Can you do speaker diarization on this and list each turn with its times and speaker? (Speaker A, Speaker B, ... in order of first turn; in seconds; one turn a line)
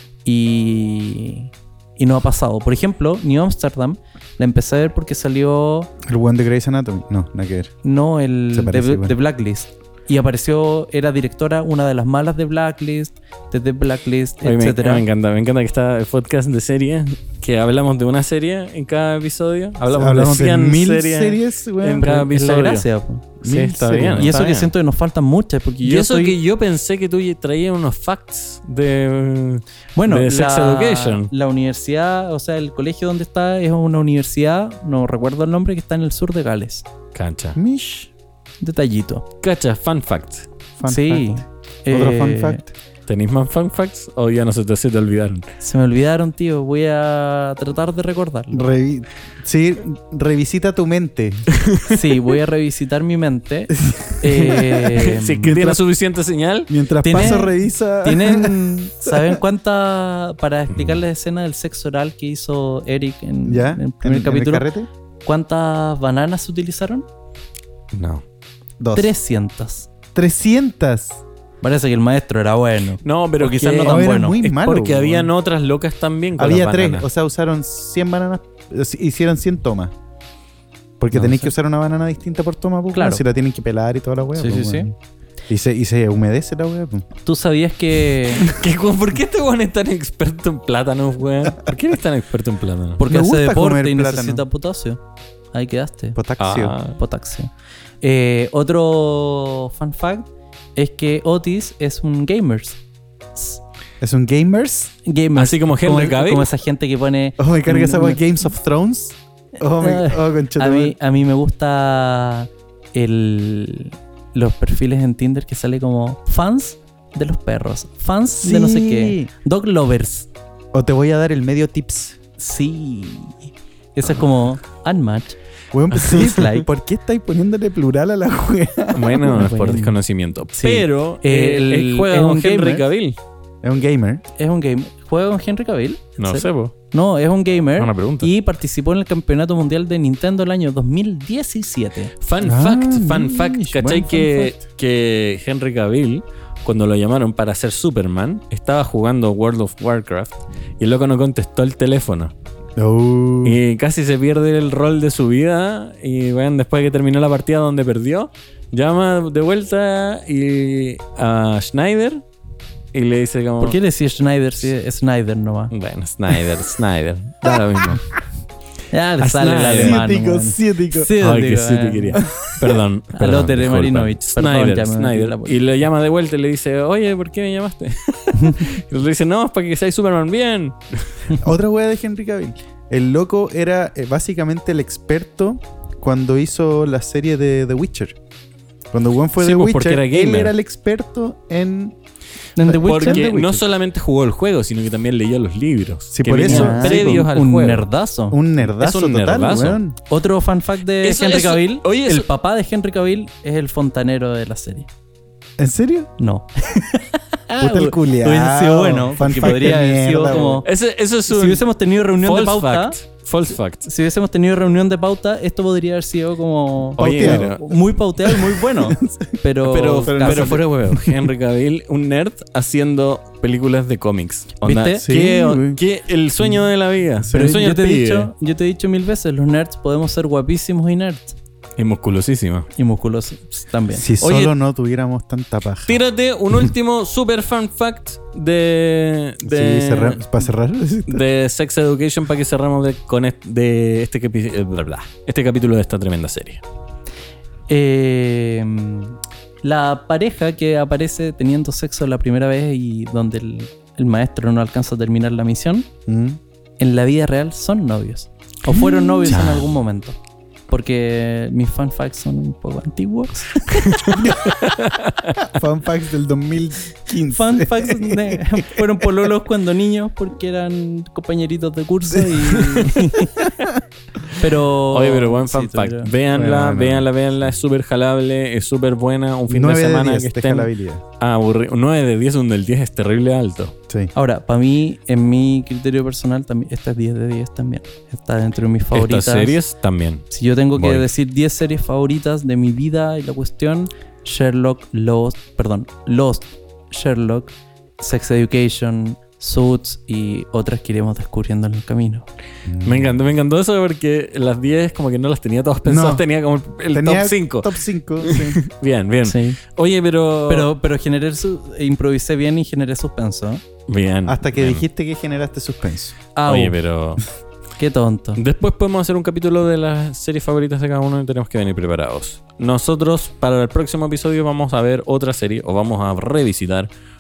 Speaker A: 0.2-5.9
Speaker B: 6.0-7.7
Speaker A: 7.8-15.1
Speaker B: 8.5-9.2
Speaker C: 14.4-22.9
Speaker B: 19.9-22.1
Speaker A: 22.0-23.2
Speaker C: 23.4-24.7
Speaker B: 23.4-24.4
Speaker A: 24.2-26.4
Speaker C: 25.8-31.3
Speaker A: 30.0-36.9
Speaker C: 37.1-37.6
Speaker B: 37.6-38.1
Speaker A: 38.6-39.3
Speaker C: 39.4-40.5
Speaker B: 40.8-42.7
Speaker A: 40.9-42.6
Speaker C: 43.1-45.5
Speaker A: 45.6-48.7
Speaker B: 48.5-51.5
Speaker C: 51.6-52.0
Speaker A: 51.9-55.5
Speaker B: 53.8-54.9
Speaker C: 54.9-57.2
Speaker B: 55.4-55.8
Speaker B: 56.7-59.4
Speaker A: 57.0-64.7
Speaker C: 60.7-61.0
Speaker B: 63.5-64.9
Speaker A: 65.2-67.1
Speaker C: 67.9-68.2
Speaker B: 68.8-69.1
Speaker A: 68.9-69.9
Speaker B: 70.2-71.2
Speaker A: 71.6-74.4
Speaker C: 73.0-77.1
Speaker B: 73.8-75.3
Speaker B: 76.4-79.9
Speaker B: 81.0-84.9
Speaker A: 81.1-81.5
Speaker A: 82.9-83.2
Speaker A: 84.4-84.9
Speaker B: 85.5-87.1
Speaker A: 87.2-88.5
Speaker C: 88.3-93.0
Speaker A: 93.0-95.0
Speaker B: 93.1-94.4
Speaker A: 95.5-96.2
Speaker B: 96.2-96.8
Speaker C: 96.4-97.0
Speaker A: 96.9-97.5
Speaker A: 98.0-102.8
Speaker A: 103.3-103.6
Speaker B: 104.0-104.9
Speaker A: 105.0-108.2
Speaker C: 105.3-106.5
Speaker B: 107.4-111.0
Speaker A: 109.8-120.3
Speaker B: 118.4-119.3
Speaker B: 120.7-122.2
Speaker A: 122.4-125.4
Speaker B: 125.7-129.4
Speaker C: 126.0-126.3
Speaker A: 126.0-126.7
Speaker C: 128.9-133.2
Speaker A: 129.3-130.0
Speaker A: 130.5-132.9
Speaker B: 133.6-134.2
Speaker A: 134.4-142.1
Speaker C: 136.2-136.7
Speaker C: 137.8-138.3
Speaker C: 142.2-152.3
Speaker B: 142.4-144.6
Speaker B: 152.8-153.6
Speaker C: 153.4-162.2
Speaker C: 162.9-163.8
Speaker A: 163.6-165.7
Speaker C: 165.7-168.1
Speaker A: 168.9-172.3
Speaker C: 169.2-170.0
Speaker B: 169.8-171.1
Speaker C: 171.2-181.3
Speaker B: 172.2-172.8
Speaker A: 173.1-175.7
Speaker A: 178.3-178.7
Speaker B: 181.4-188.2
Speaker B: 188.9-192.0
Speaker C: 189.4-190.5
Speaker A: 192.6-193.3
Speaker B: 192.6-193.7
Speaker C: 192.8-197.9
Speaker B: 196.1-197.1
Speaker A: 196.4-198.4
Speaker B: 198.3-200.0
Speaker C: 198.7-199.8
Speaker A: 200.1-204.9
Speaker C: 201.0-202.3
Speaker B: 205.6-206.1
Speaker A: 206.2-210.7
Speaker B: 207.6-210.7
Speaker C: 210.6-213.9
Speaker A: 211.3-213.0
Speaker A: 213.8-221.0
Speaker C: 217.0-217.8
Speaker B: 217.0-217.6
Speaker B: 218.3-219.4
Speaker C: 219.6-228.3
Speaker B: 219.9-220.7
Speaker A: 224.6-225.1
Speaker B: 225.0-225.8
Speaker A: 227.3-231.4
Speaker C: 231.8-232.7
Speaker A: 232.8-234.1
Speaker B: 233.9-236.0
Speaker C: 234.2-234.5
Speaker C: 235.9-240.2
Speaker B: 239.4-241.2
Speaker C: 241.1-246.6
Speaker A: 247.7-255.9
Speaker B: 256.1-256.4
Speaker A: 256.8-260.2
Speaker B: 258.7-259.5
Speaker C: 259.3-259.7
Speaker A: 260.7-264.4
Speaker C: 263.9-265.4
Speaker B: 264.1-264.6
Speaker B: 265.4-268.9
Speaker A: 267.2-273.6
Speaker B: 272.1-273.8
Speaker A: 274.4-276.1
Speaker C: 274.9-283.8
Speaker B: 276.3-277.1
Speaker B: 279.5-281.0
Speaker A: 284.1-289.6
Speaker C: 288.9-291.1
Speaker A: 290.3-302.3
Speaker B: 302.7-303.1
Speaker C: 302.8-310.7
Speaker B: 305.9-306.2
Speaker B: 306.9-308.6
Speaker A: 309.2-309.6
Speaker A: 310.5-313.6
Speaker C: 313.9-314.8
Speaker B: 314.3-316.1
Speaker A: 316.4-316.8
Speaker C: 316.5-317.2
Speaker A: 317.8-318.4
Speaker C: 318.4-326.9